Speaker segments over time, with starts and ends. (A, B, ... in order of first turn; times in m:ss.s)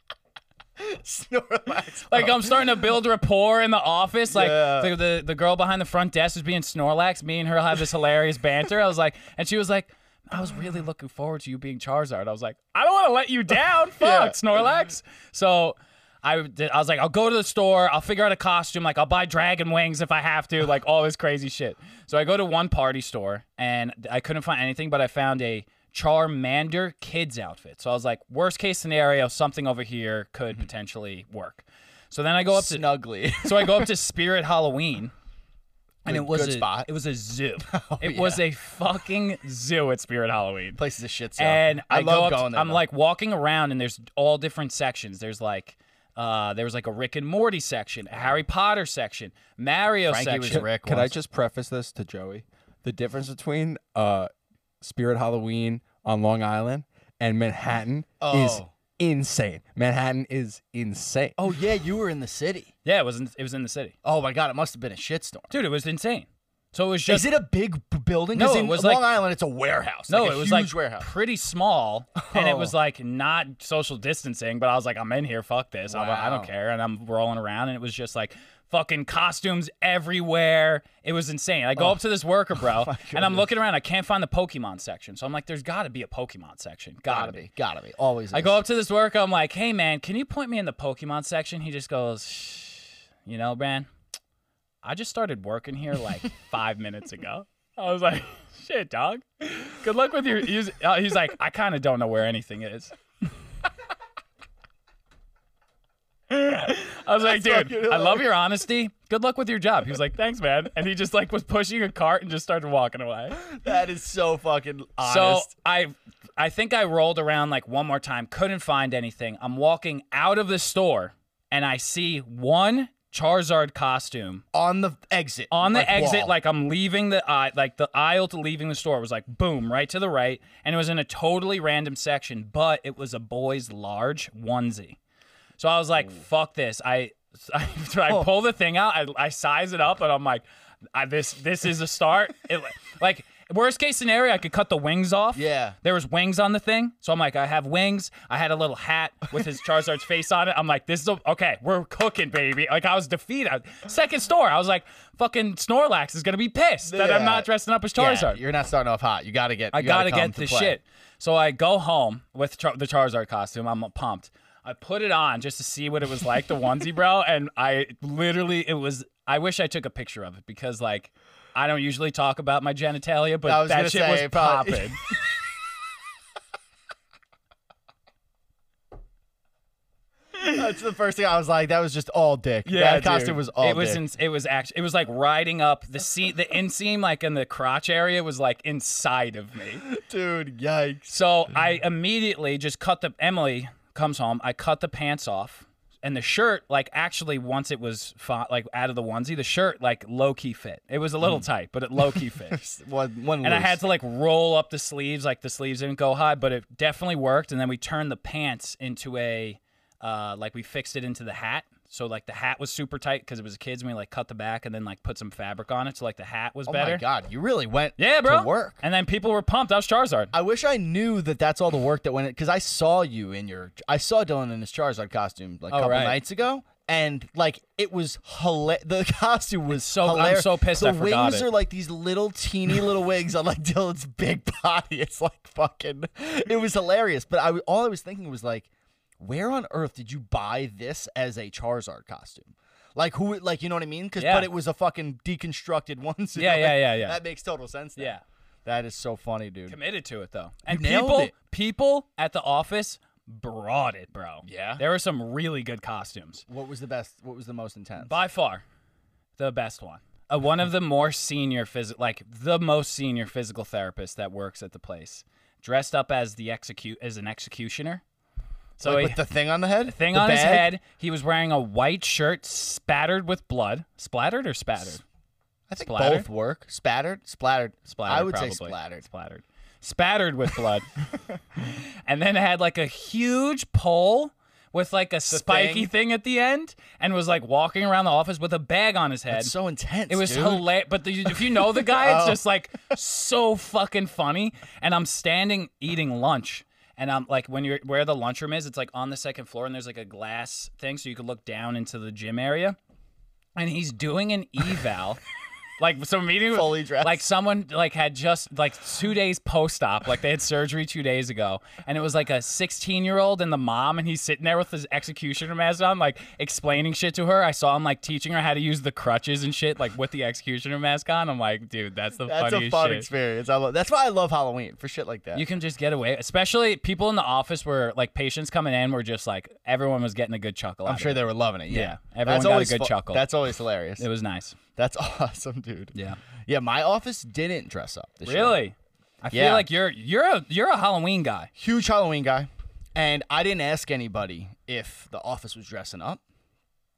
0:00.8-0:02.6 A
0:02.1-0:32.9 B
0:04.3-0:04.9 A
0:14.0-0:14.4 A
0:32.5-0:33.9 A
0:33.4-0:35.1 B
0:36.0-0:36.9 A
0:36.0-0:40.8 B
0:37.7-0:38.4 A
0:40.8-0:42.8 A
0:41.4-0:50.7 B
0:50.0-0:51.1 A
0:50.5-0:54.3 C
0:54.8-1:01.4 C
0:58.2-0:58.7 A
1:01.4-1:02.7 A
1:02.8-1:03.9 B
1:04.0-1:05.5 A
1:05.5-1:07.3 B
1:07.1-1:11.1 A
1:08.3-1:09.1 B
1:10.1-1:27.5 B
1:12.2-1:12.7 A
1:15.9-1:16.5 A
1:22.6-1:23.5 A
1:27.1-1:28.6 A
1:28.3-1:33.9 B
1:34.8-1:42.9 B
1:46.3-1:53.4 B
1:47.2-1:48.3 A
1:53.4-1:55.5 A
1:55.0-2:04.4 B
2:04.5-2:06.3 A
2:05.5-2:15.0 B
2:15.6-2:38.4 B
2:25.3-2:25.8 A
2:36.8-2:40.8 A
2:39.7-2:55.0 B
2:53.4-2:55.1 A
3:00.4-3:04.0 A
3:02.6-3:09.8 B
3:09.8-3:11.1 A
3:11.1-3:22.6 B
3:22.1-3:23.8 A
3:23.4-3:37.0 B
3:36.7-3:38.8 A
3:38.0-3:40.3 B
3:40.3-4:09.8 A
3:45.7-3:46.2 B
3:49.7-3:51.5 B
4:04.2-4:04.5 B
4:06.4-4:07.2 B
4:08.0-4:08.2 B
4:09.7-4:16.4 B
4:10.7-4:11.3 A
4:14.4-4:14.8 A
4:16.5-4:18.2 A
4:18.0-4:18.6 B
4:19.4-4:28.0 B
4:28.8-4:29.2 B
4:28.8-4:30.7 A
4:29.8-4:35.0 B
4:35.7-4:39.0 A
4:35.8-4:36.3 B
4:37.9-4:40.9 B
4:41.6-4:49.5 B
4:45.3-4:45.9 A
4:49.3-4:50.7 A
4:50.1-5:02.8 B
4:51.2-4:52.4 A
5:03.6-5:05.2 B
5:05.8-5:23.1 B
5:06.5-5:07.2 A
5:22.2-5:25.4 A
5:25.3-5:33.3 B
5:30.8-5:34.0 A
5:34.0-5:34.6 B
5:34.8-5:38.6 A
5:35.9-5:36.2 B
5:38.2-5:41.5 B
5:39.3-5:39.7 A
5:41.6-5:46.2 A